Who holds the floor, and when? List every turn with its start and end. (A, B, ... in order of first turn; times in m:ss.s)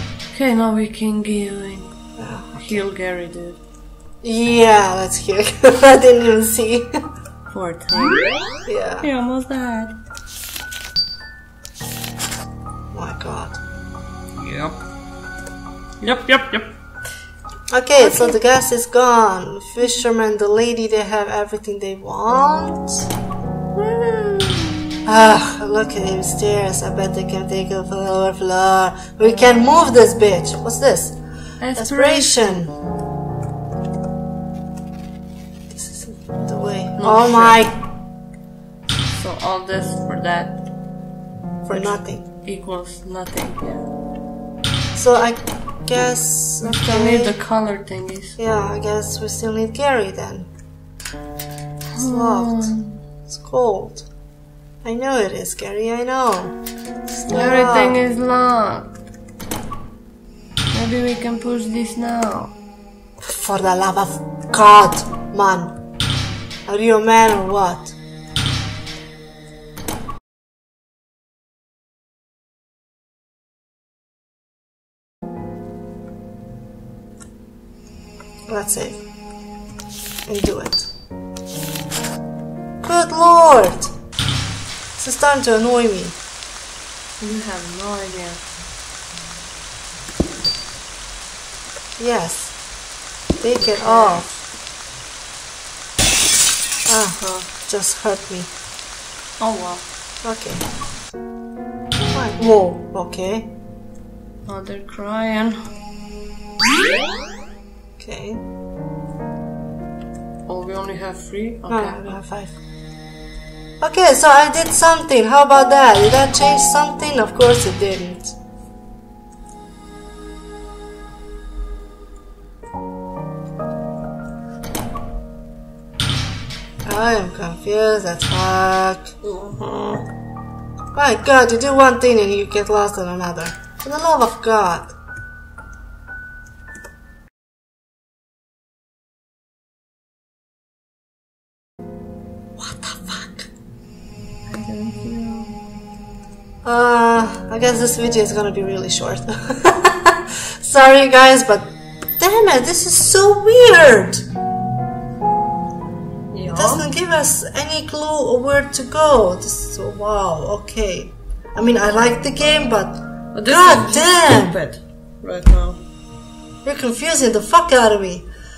0:00.3-0:01.9 A
0:02.2-0:02.8 B
0:02.6-0:03.6 A
0:04.2-0:06.9 B
0:07.5-0:08.3 A
0:08.7-0:09.1 B
0:09.0-0:10.0 A
0:12.9-0:13.6 B
0:14.4-0:14.8 A
0:16.0-0:16.7 A
0:17.7-0:23.1 B
0:18.0-0:18.4 A
0:23.8-0:24.9 A
0:25.1-0:31.2 B
0:31.6-0:32.6 A
0:31.7-0:32.7 B
0:35.7-0:37.8 B
0:37.0-0:37.6 A
0:39.1-0:40.6 A
0:41.6-0:42.3 B
0:41.7-0:43.9 A
0:45.0-0:47.4 B
0:46.6-0:48.4 A
0:48.4-0:50.5 B
0:52.0-0:53.0 A
0:52.0-0:52.8 B
0:53.3-0:54.1 B
0:54.8-0:56.6 B
0:57.1-0:58.0 B
0:57.3-0:58.9 A
1:00.7-1:02.5 A
1:03.2-1:05.7 B
1:06.7-1:08.0 B
1:18.5-1:19.0 B
1:20.3-1:20.9 B
1:22.8-1:23.9 B
1:25.0-1:26.2 B
1:27.2-1:28.4 A
1:32.0-1:32.5 B
1:33.4-1:34.3 B
1:33.6-1:34.4 A
1:36.9-1:38.5 B
1:37.2-1:37.5 A
1:39.4-1:39.9 A
1:40.2-1:40.7 B
1:42.1-1:43.5 B
1:44.5-1:45.6 A
1:48.0-1:48.4 B
1:50.5-1:52.2 A
1:51.7-1:52.5 B
1:53.8-1:58.4 B
2:06.8-2:09.1 B
2:09.2-2:10.1 A
2:10.9-2:14.9 B
2:22.6-2:23.5 B
2:24.5-2:25.6 A
2:26.6-2:34.2 B
2:36.3-2:36.9 A
2:36.5-2:44.6 B
2:43.3-2:45.8 A
2:46.6-2:48.3 B